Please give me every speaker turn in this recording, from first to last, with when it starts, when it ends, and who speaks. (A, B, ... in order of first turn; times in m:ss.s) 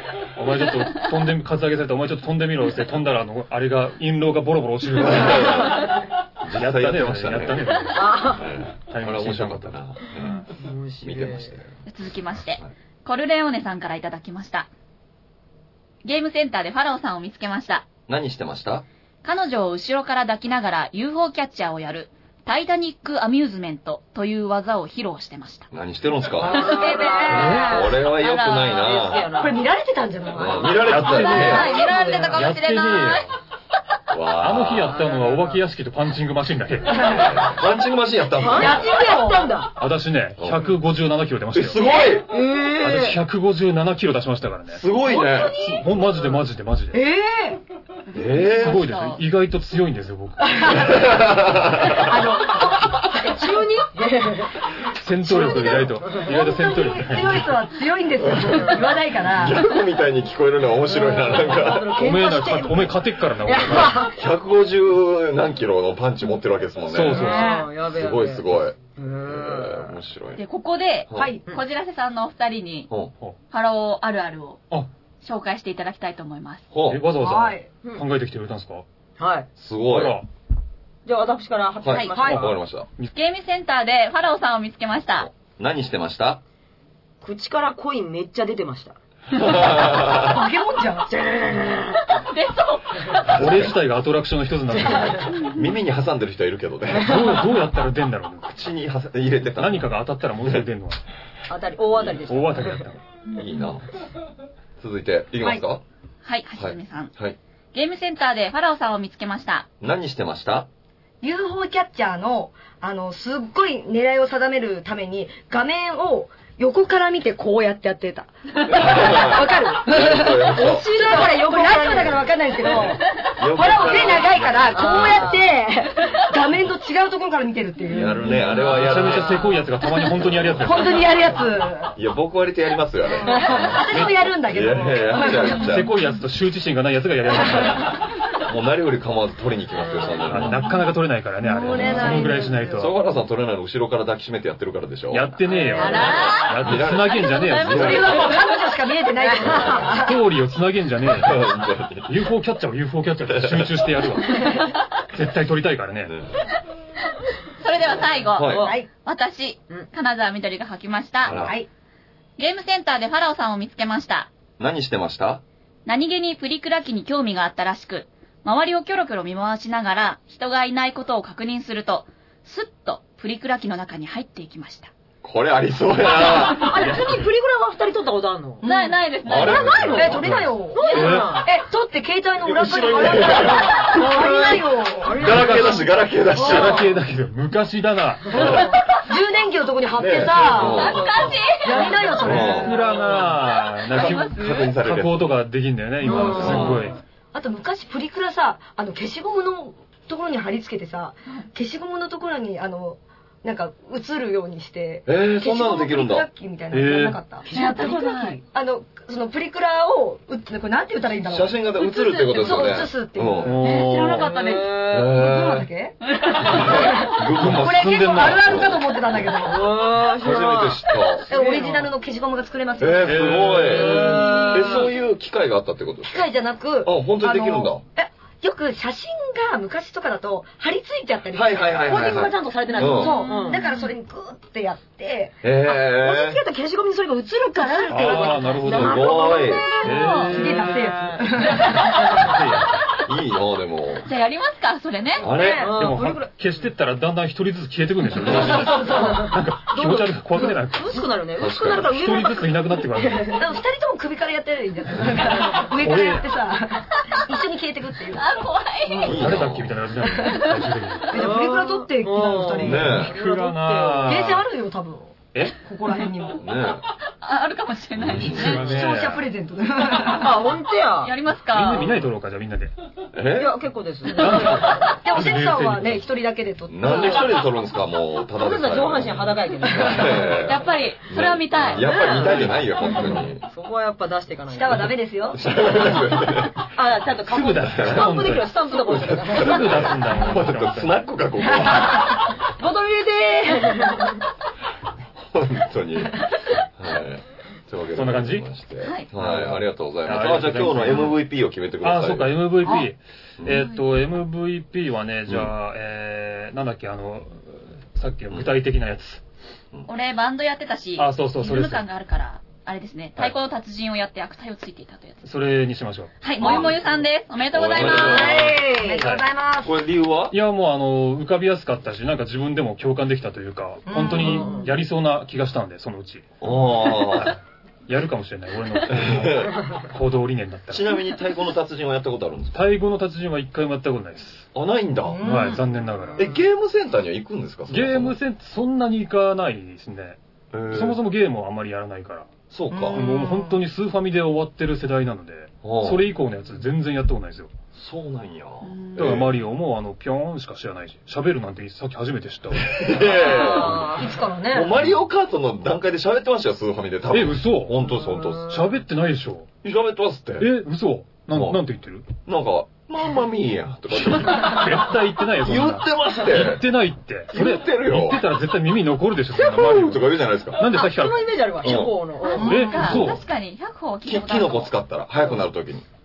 0:00.4-0:05.9 A
0:05.0-0:05.8 B
0:06.4-0:10.5 B
0:06.5-0:10.4 A
0:07.9-0:08.5 C
0:10.6-0:11.5 C
0:11.0-0:11.7 B
0:11.8-0:14.7 D
0:16.0-0:17.9 D
0:18.1-0:18.8 B
0:19.2-0:25.7 D
0:25.7-0:26.6 B
0:26.4-0:27.8 C
0:26.5-0:26.8 D
0:26.6-0:28.0 E
0:27.3-0:27.7 A
0:27.4-0:29.3 B
0:28.0-0:28.9 D
0:28.6-0:29.6 C
0:29.3-0:32.5 E
0:30.3-0:31.8 B
0:30.8-0:31.8 A
0:31.3-0:33.2 D
0:32.3-0:33.3 A
0:34.1-0:35.0 B
0:34.4-0:37.2 A
0:34.9-0:35.6 C
0:36.9-0:37.4 E
0:37.0-0:38.9 B
0:38.4-0:39.7 C
0:38.5-0:39.5 E
0:39.8-0:41.9 A
0:40.4-0:40.7 B
0:41.5-0:42.3 B
0:42.0-0:43.2 C
0:42.8-0:44.8 A
0:44.7-0:45.6 B
0:45.0-0:46.2 C
0:45.6-0:47.0 A
0:46.9-0:47.6 E
0:48.1-0:49.2 D
0:48.1-0:48.8 B
0:48.5-0:51.0 A
0:50.5-0:51.1 E
0:50.7-0:52.2 B
0:51.8-0:53.6 E
0:53.1-0:54.6 C
0:54.9-0:57.5 A
0:55.2-0:59.7 E
0:55.3-0:55.9 B
0:56.0-0:56.3 C
0:58.2-0:58.7 B
0:58.5-0:58.9 C
0:59.3-1:02.0 B
1:00.9-1:04.2 C
1:02.0-1:04.0 A
1:04.0-1:10.4 B
1:06.9-1:07.6 A
1:07.1-1:10.0 C
1:07.2-1:07.7 E
1:10.4-1:12.9 D
1:11.1-1:11.3 B
1:11.1-1:11.4 E
1:13.5-1:14.6 D
1:15.2-1:16.6 D
1:16.7-1:17.0 B
1:16.9-1:18.8 A
1:17.2-1:17.7 E
1:19.2-1:19.5 C
1:19.6-1:20.2 B
1:19.8-1:20.3 A
1:21.0-1:22.6 C
1:21.8-1:22.9 B
1:21.9-1:22.1 D
1:22.1-1:22.5 E
1:23.1-1:25.3 D
1:25.2-1:26.4 B
1:27.2-1:29.0 C
1:29.3-1:30.4 B
1:29.8-1:31.1 E
1:31.1-1:32.2 C
1:32.2-1:33.3 D
1:33.2-1:33.8 B
1:33.3-1:35.4 A
1:34.8-1:35.2 C
1:35.4-1:35.7 D
1:35.4-1:37.4 B
1:37.0-1:38.5 A
1:38.4-1:39.9 B
1:39.6-1:41.0 A
1:41.5-1:42.8 C
1:42.2-1:43.0 A
1:43.3-1:43.9 B
1:44.8-1:45.8 B
1:46.2-1:47.1 D
1:46.6-1:47.4 B
1:47.7-1:49.7 D
1:49.8-1:50.7 B
1:51.2-2:08.4 E
1:58.6-2:00.9 B
2:00.5-2:02.9 C
2:02.6-2:05.2 B
2:04.1-2:05.4 A
2:04.7-2:05.6 C
2:07.9-2:09.4 B
2:08.4-2:09.0 C
2:08.6-2:11.1 A
2:10.1-2:11.0 B
2:10.6-2:11.9 E
2:12.0-2:13.9 B
2:13.2-2:15.7 E
2:13.8-2:14.2 A
2:14.5-2:15.9 B
2:15.6-2:17.9 A
2:18.4-2:20.6 B
2:20.3-2:23.0 A
2:21.4-2:22.9 E
2:21.8-2:25.4 B
2:25.1-2:28.2 A
2:25.4-2:26.5 C
2:25.8-2:26.4 D
2:25.9-2:28.3 B
2:25.9-2:26.2 E
2:27.6-2:30.2 E
2:27.8-2:28.2 C
2:29.2-2:30.0 C
2:29.4-2:29.8 B
2:29.9-2:31.5 A
2:31.0-2:32.1 B
2:32.0-2:36.1 A
2:33.3-2:34.1 B
2:36.1-2:36.4 B
2:37.6-2:41.4 D
2:38.0-2:38.7 B
2:38.5-2:38.8 C
2:38.6-2:38.9 E
2:41.2-2:41.6 B
2:41.3-2:41.7 E
2:42.4-2:44.3 D
2:44.6-2:45.4 B
2:45.8-2:54.9 D
2:55.2-2:57.0 B
2:56.2-2:58.6 C
2:58.6-2:59.0 E
2:58.6-3:00.2 D
2:59.2-3:00.4 B
2:59.3-3:01.5 C
2:59.9-3:05.4 E
3:00.2-3:01.3 A
3:00.8-3:01.2 D
3:02.4-3:06.9 B
3:03.5-3:05.8 C
3:05.2-3:08.7 A
3:06.3-3:06.8 E
3:08.3-3:12.9 E
3:08.4-3:08.6 B
3:09.9-3:11.2 B
3:10.5-3:12.6 C
3:10.6-3:12.0 D
3:12.2-3:12.8 B
3:12.2-3:17.0 A
3:13.9-3:14.8 D
3:13.9-3:15.4 B
3:16.0-3:17.0 C
3:16.0-3:16.9 B
3:16.2-3:16.6 E
3:17.3-3:27.5 E
3:25.0-3:26.3 B
3:26.7-3:27.2 A
3:27.4-3:28.4 C
3:27.5-3:28.4 D
3:28.0-3:33.6 E
3:31.3-3:33.6 B
3:33.4-3:34.3 A
3:33.6-3:34.7 D
3:34.0-3:35.1 C
3:34.9-3:35.7 B
3:35.0-3:39.7 E
3:36.0-3:37.0 D
3:36.4-3:39.3 B
3:37.3-3:38.7 A
3:39.3-3:41.9 C
3:40.1-3:41.3 B
3:41.3-3:44.8 E
3:42.8-3:46.3 B
3:43.0-3:44.2 A
3:43.6-3:44.9 C
3:46.0-3:55.4 E
3:46.8-3:47.8 B
3:51.3-3:53.2 B
3:51.8-3:53.7 C
3:53.1-3:53.9 D
3:55.4-3:56.4 B
3:55.8-4:02.3 C
3:57.5-3:59.4 E
3:57.9-3:59.1 A
3:58.7-3:59.7 B
3:59.8-4:00.8 A
3:59.9-4:00.3 D
4:00.1-4:02.2 E
4:02.1-4:02.7 A
4:03.0-4:04.1 B
4:04.0-4:05.3 D
4:05.2-4:05.8 E
4:05.2-4:05.7 B
4:05.4-4:06.3 C
4:05.8-4:11.0 A
4:08.2-4:08.9 B
4:08.2-4:09.3 E
4:08.9-4:13.4 C
4:11.4-4:12.0 B
4:11.9-4:13.4 A
4:13.4-4:18.3 E
4:15.8-4:16.3 A
4:18.1-4:19.2 D
4:18.8-4:19.3 E
4:19.0-4:19.9 B
4:19.0-4:21.2 A
4:20.0-4:20.6 E
4:21.1-4:23.1 E
4:21.1-4:24.3 C
4:22.6-4:23.1 B
4:22.9-4:24.5 A
4:24.0-4:26.4 E
4:26.4-4:26.8 B
4:27.2-4:28.7 D
4:28.0-4:28.7 B
4:28.2-4:29.3 A
4:28.6-4:30.5 E
4:30.1-4:31.1 C
4:31.0-4:32.0 D
4:31.5-4:32.7 A
4:33.1-4:33.6 B
4:33.4-4:35.0 C
4:34.1-4:36.0 A
4:34.4-4:37.4 E
4:36.7-4:43.4 B
4:38.4-4:40.4 C
4:40.4-4:42.1 D
4:41.6-4:42.7 A
4:41.8-4:44.9 C
4:44.5-4:45.5 E
4:45.3-4:46.6 B
4:46.7-4:49.9 C
4:47.3-4:48.6 A
4:47.6-4:48.1 B
4:48.8-4:52.2 B
4:49.3-4:51.1 A
4:51.5-4:52.1 E
4:52.6-4:54.2 C
4:55.3-5:02.5 B
4:57.9-4:58.5 A
4:58.8-4:59.1 D
4:59.2-5:01.2 A
5:01.8-5:09.2 A
5:03.5-5:03.8 D
5:09.8-5:15.2 D
5:11.0-5:11.8 A
5:15.2-5:16.1 A
5:16.2-5:18.4 D
5:16.4-5:16.9 B
5:17.5-5:18.6 B
5:17.8-5:19.1 C
5:17.9-5:19.7 E
5:19.0-5:19.2 A
5:19.6-5:20.4 B
5:20.3-5:26.3 A
5:23.8-5:24.6 E
5:24.1-5:24.7 C
5:26.4-5:27.3 B
5:26.8-5:27.4 A
5:27.9-5:30.9 A
5:28.9-5:29.6 B
5:30.7-5:32.7 B
5:32.5-5:34.5 A
5:34.5-5:35.2 B
5:35.0-5:35.6 E
5:35.2-5:36.3 A
5:36.2-5:38.2 B
5:37.7-5:40.2 A
5:40.5-5:41.0 B
5:40.7-5:42.3 A
5:42.5-5:43.0 B
5:42.7-5:43.6 E
5:42.9-5:47.5 A
5:45.6-5:46.0 B
5:47.7-5:49.4 B
5:48.6-5:48.9 D
5:48.9-5:53.8 A
5:52.5-5:58.6 B
5:53.1-5:54.2 C
5:54.0-5:54.7 E
5:57.1-5:57.8 A
5:57.8-5:58.7 C
5:58.5-5:59.5 A
5:59.6-6:00.5 B
6:00.4-6:02.0 A
6:01.3-6:01.6 B
6:02.2-6:06.6 B
6:04.0-6:11.4 A
6:07.3-6:08.2 B
6:09.3-6:09.8 C
6:09.4-6:10.6 B
6:10.6-6:12.6 C
6:11.6-6:12.0 B
6:12.2-6:14.7 D
6:12.3-6:13.0 E
6:12.4-6:13.2 A
6:14.0-6:15.8 B